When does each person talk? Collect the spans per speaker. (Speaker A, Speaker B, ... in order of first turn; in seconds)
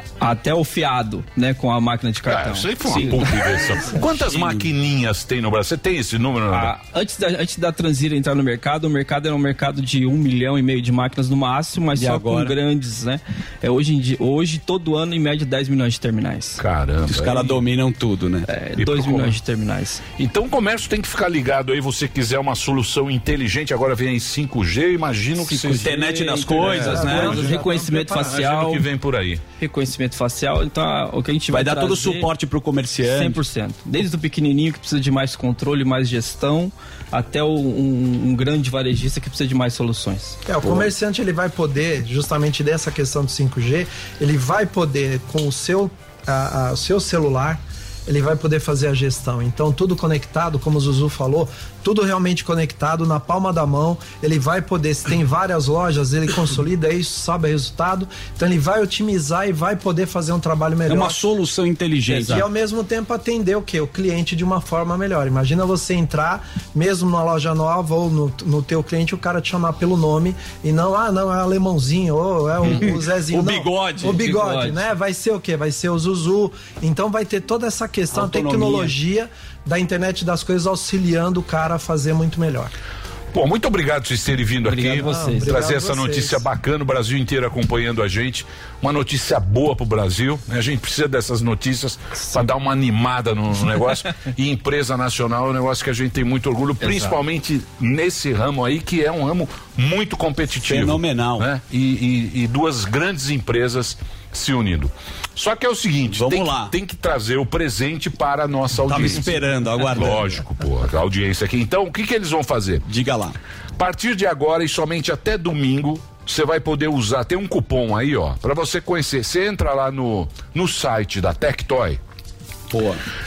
Speaker A: 0.2-3.1, 6.5-16.6, 18.5-20.0, 25.4-28.8, 29.6-32.3, 33.0-40.4, 74.1-74.9, 84.7-85.6, 96.8-97.2
Speaker B: 2.3-6.8, 16.6-17.6, 18.8-19.4, 20.2-25.9, 26.5-27.2, 28.1-29.4, 83.3-112.8, 113.8-122.0
Speaker C: 2.8-4.7, 11.9-12.6, 17.1-18.5, 25.7-27.6, 31.5-33.4, 60.9-62.5, 72.7-74.2, 78.1-78.9, 100.6-101.5, 106.1-106.7, 108.8-110.4, 112.9-113.3, 122.7-123.0
Speaker D: 26.8-28.4, 40.5-61.2, 62.1-82.7, 84.9-86.4